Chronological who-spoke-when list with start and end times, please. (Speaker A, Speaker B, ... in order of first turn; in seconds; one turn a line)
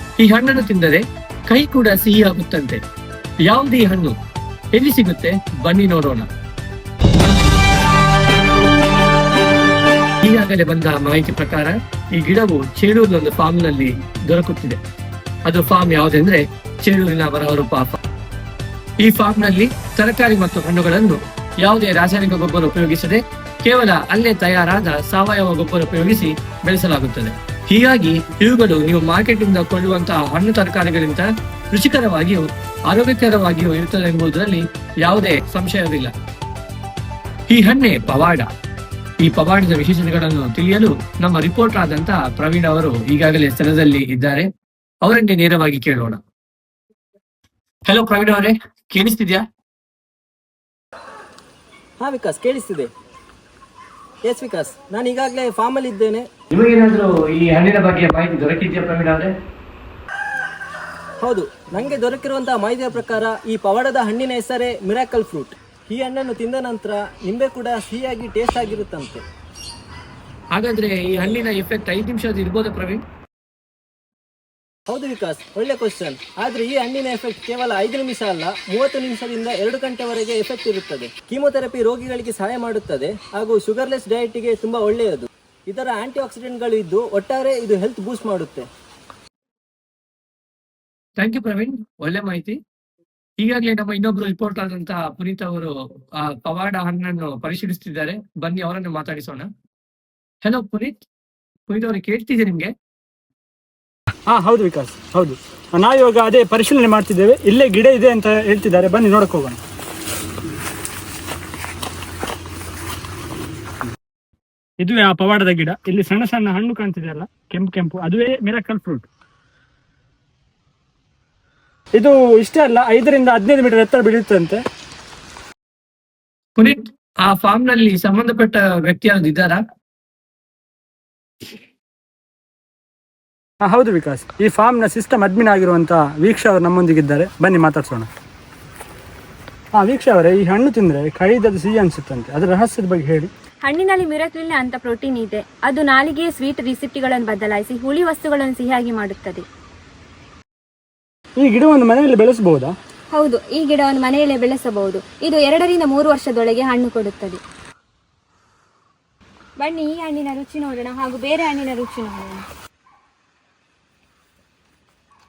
Speaker A: 0.2-2.8
Speaker A: 3.4-4.2
Speaker A: 4.7-6.3
Speaker A: 10.2-14.8
Speaker A: 15.4-18.0
Speaker A: 19.0-36.1
Speaker A: 37.5-38.5
Speaker A: 39.2-44.5
Speaker A: 45.0-46.2
Speaker A: 47.8-49.5
Speaker B: 52.0-52.9
Speaker B: 54.2-56.3
Speaker A: 56.5-59.3
Speaker B: 61.2-69.2
Speaker A: 70.5-73.0
Speaker B: 74.9-88.7
Speaker A: 91.2-92.6
Speaker A: 93.4-99.5
Speaker A: 100.4-101.0
Speaker A: 101.7-102.7
Speaker C: 104.3-109.6
Speaker C: 114.8-119.1
Speaker C: 122.0-124.6
Speaker A: 126.6-129.6
Speaker C: 133.6-138.1
Speaker C: 139.8-143.3
Speaker D: 143.6-149.4
Speaker C: 151.4-152.7
Speaker D: 153.1-157.4
Speaker D: 159.6-162.4